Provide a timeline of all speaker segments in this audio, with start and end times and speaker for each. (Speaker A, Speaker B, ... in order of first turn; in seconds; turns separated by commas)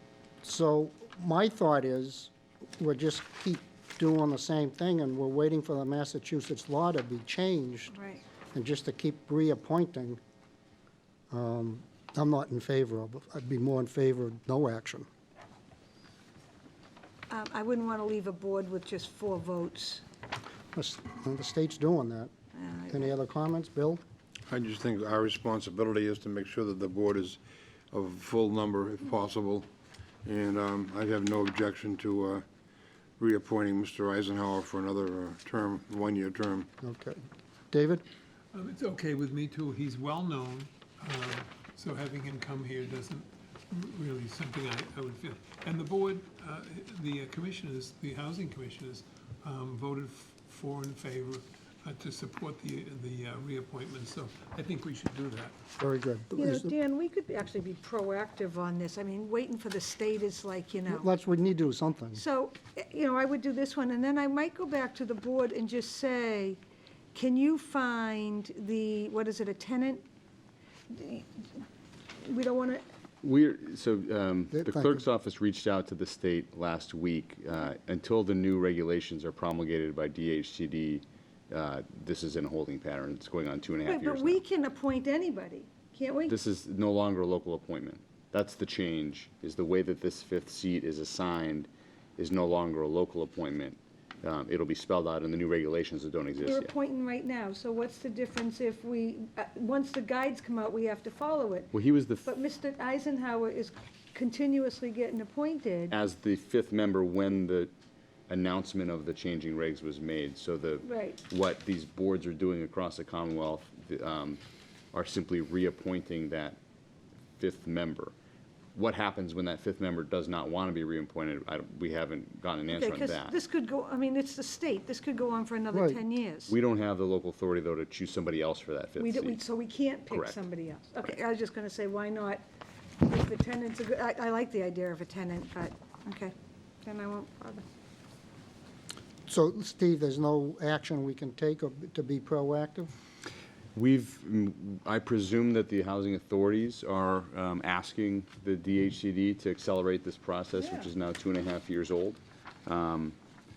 Speaker A: 0.4-8.0, Speaker B: 7.9-8.2, Speaker A: 8.5-10.2, Speaker A: 11.3-15.1, Speaker B: 17.3-20.0, Speaker A: 20.8-22.3, Speaker B: 22.5-23.1, Speaker A: 22.9-24.0, Speaker C: 24.5-27.4, Speaker C: 27.9-29.7, Speaker C: 30.2-32.5, Speaker C: 33.2-36.7, Speaker A: 36.8-37.2, Speaker A: 37.7-38.0, Speaker D: 38.5-55.5, Speaker A: 55.8-56.8, Speaker B: 56.4-61.1, Speaker A: 60.9-62.2, Speaker B: 62.1-66.6, Speaker B: 67.1-70.0, Speaker B: 70.9-71.5, Speaker B: 72.2-72.8, Speaker E: 73.2-84.4, Speaker A: 74.5-75.0, Speaker B: 83.9-86.4, Speaker E: 86.3-96.7, Speaker B: 96.4-106.0, Speaker E: 101.7-102.3, Speaker E: 105.9-107.7, Speaker E: 108.3-114.4, Speaker B: 110.8-111.2, Speaker E: 114.9-116.6, Speaker E: 117.4-118.1, Speaker E: 118.8-123.4, Speaker B: 122.7-126.5, Speaker A: 125.7-126.0, Speaker E: 126.5-129.4, Speaker B: 129.0-132.4, Speaker E: 130.1-130.4, Speaker B: 133.0-137.6, Speaker A: 139.3-142.9, Speaker E: 143.8-153.2, Speaker B: 150.6-150.9